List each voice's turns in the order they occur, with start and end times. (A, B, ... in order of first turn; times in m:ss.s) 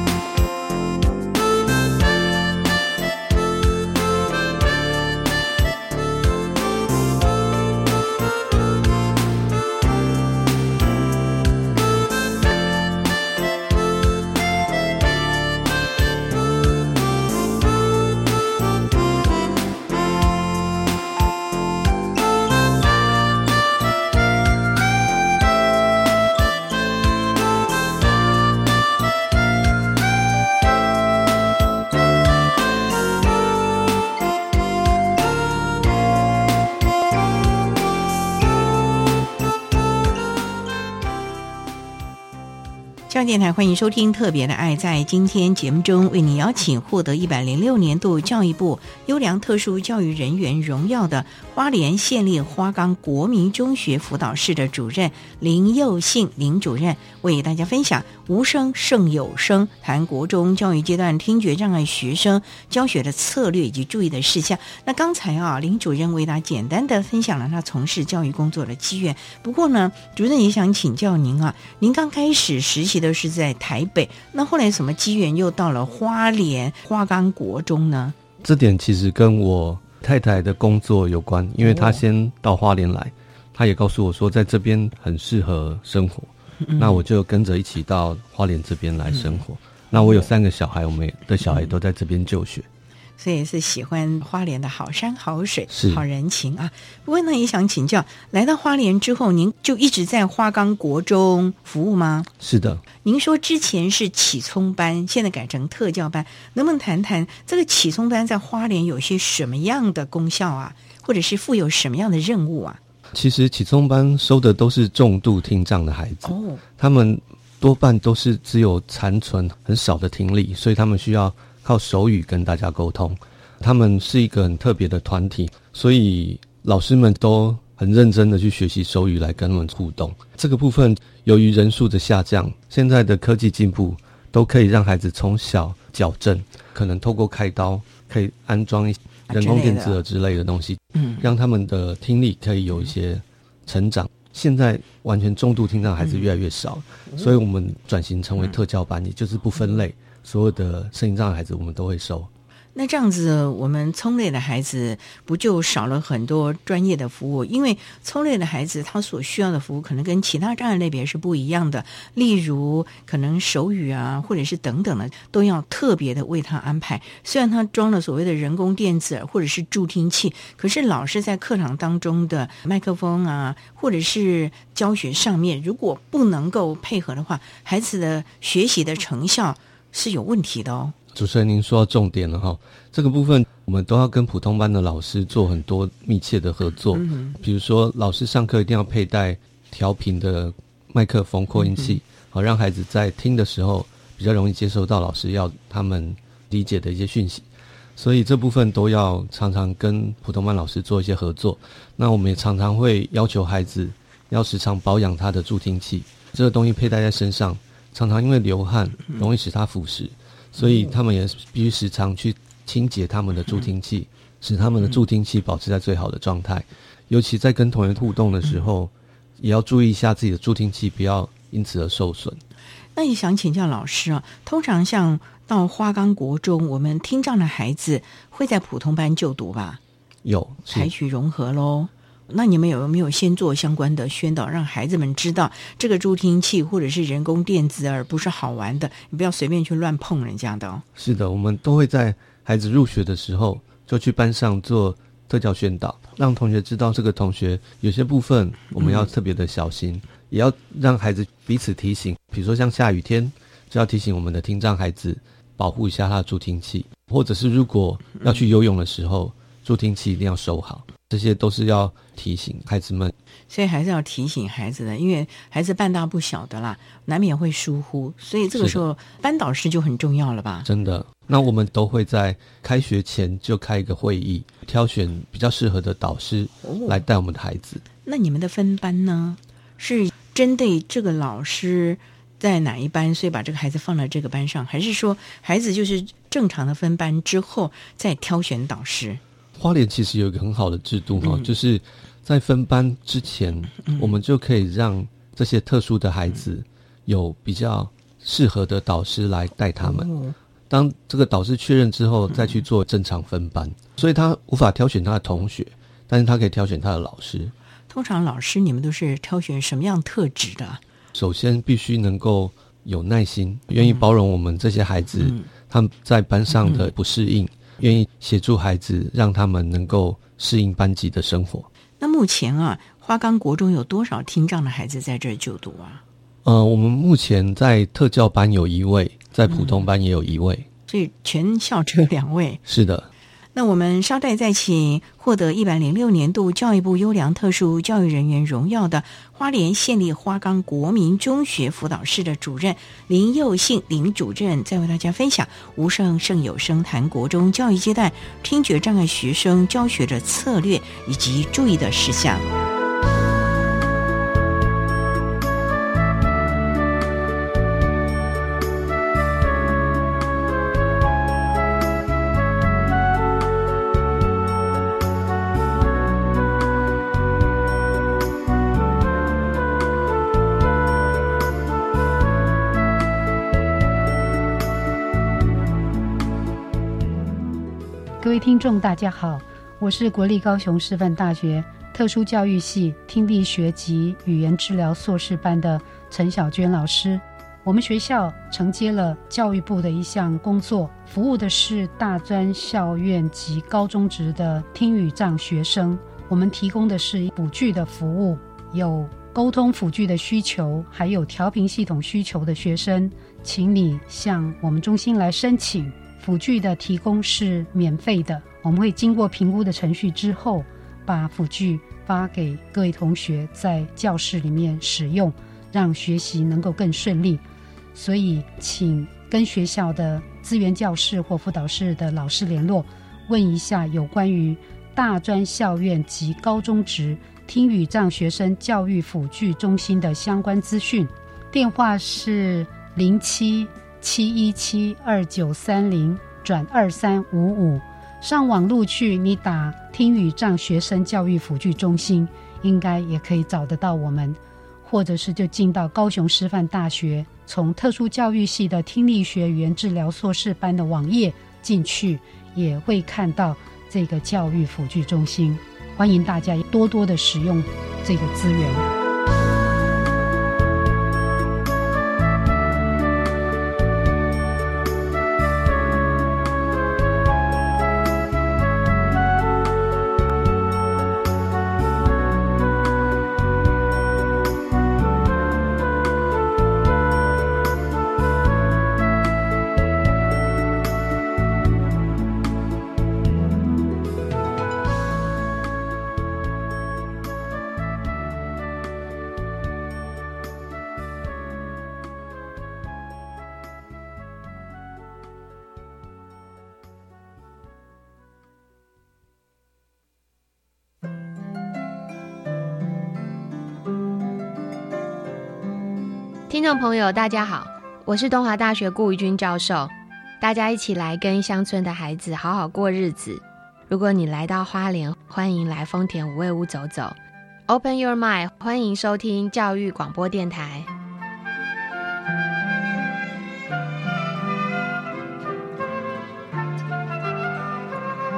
0:43.1-1:18.2 A
1:18.4-1:32.7 B
1:26.7-1:27.0 A
1:33.2-1:42.3 A
1:35.7-1:36.0 B
1:42.4-1:42.8 B
1:43.0-1:52.8 A
1:53.1-2:32.3 B
1:56.2-1:56.6 A
2:19.3-2:20.0 A
2:32.8-3:01.0 A
3:01.1-3:42.4 B
3:07.0-3:07.4 A
3:43.0-3:49.8 A
3:50.2-3:50.9 B
3:50.7-4:00.8 A
4:01.0-4:23.2 B
4:23.5-4:30.7 A
4:28.6-4:28.8 B
4:30.6-4:37.8 B
4:36.6-4:37.0 A
4:38.0-4:49.2 A
4:49.6-5:00.1 B
5:00.7-5:07.5 B
5:07.9-5:10.8 A
5:11.1-5:21.7 B
5:22.0-5:26.0 A
5:26.4-5:30.7 B
5:29.5-5:29.8 A
5:30.9-5:32.6 A
5:32.7-5:33.1 B
5:33.6-5:52.5 A
6:18.2-6:57.4 C
6:57.9-7:38.8 C
8:26.5-8:37.2 D
8:37.7-8:40.9 D